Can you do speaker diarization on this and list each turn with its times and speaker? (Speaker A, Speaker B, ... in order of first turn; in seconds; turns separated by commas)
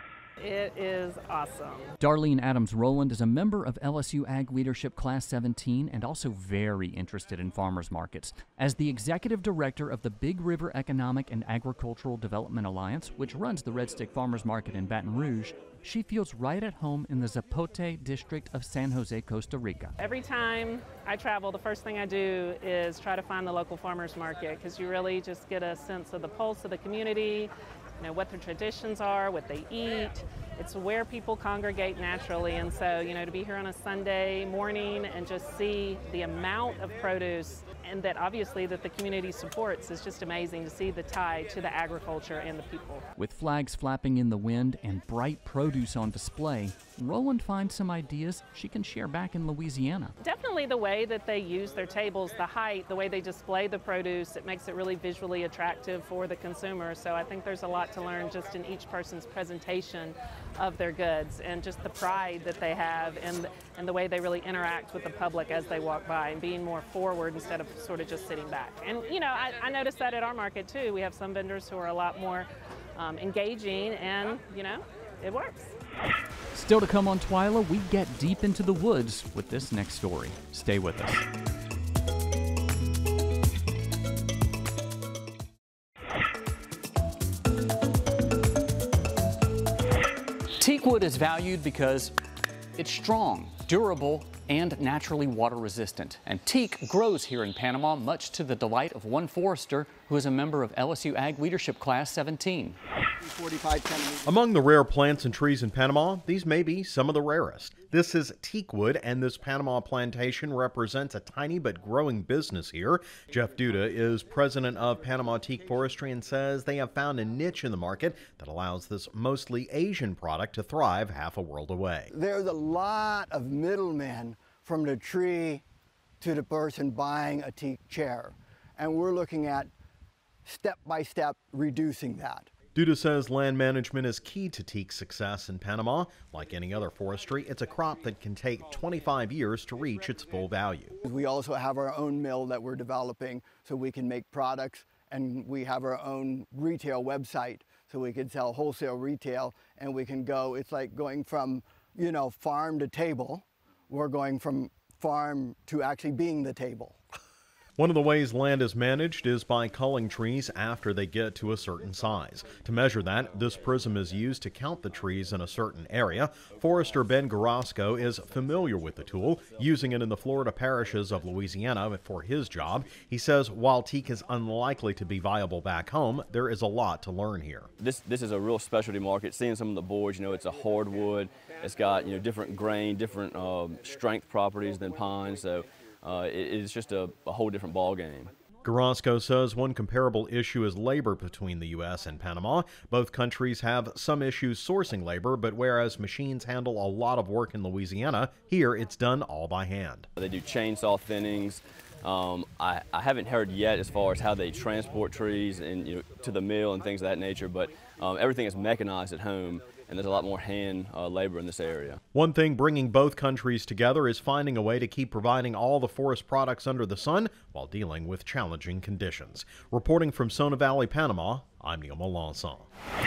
Speaker A: 0.4-1.9, Speaker B: 2.0-19.9, Speaker A: 20.0-43.0, Speaker B: 43.2-50.1, Speaker A: 50.2-75.8, Speaker B: 76.5-81.3, Speaker B: 90.6-92.2, Speaker B: 92.8-102.8, Speaker C: 103.2-104.3, Speaker D: 104.2-122.1, Speaker C: 122.1-125.6, Speaker C: 126.2-129.7, Speaker C: 130.4-132.5, Speaker D: 132.8-141.0, Speaker C: 141.1-157.0, Speaker D: 157.8-177.7, Speaker E: 177.8-188.3, Speaker D: 188.6-200.1, Speaker E: 200.2-212.0, Speaker D: 212.1-222.7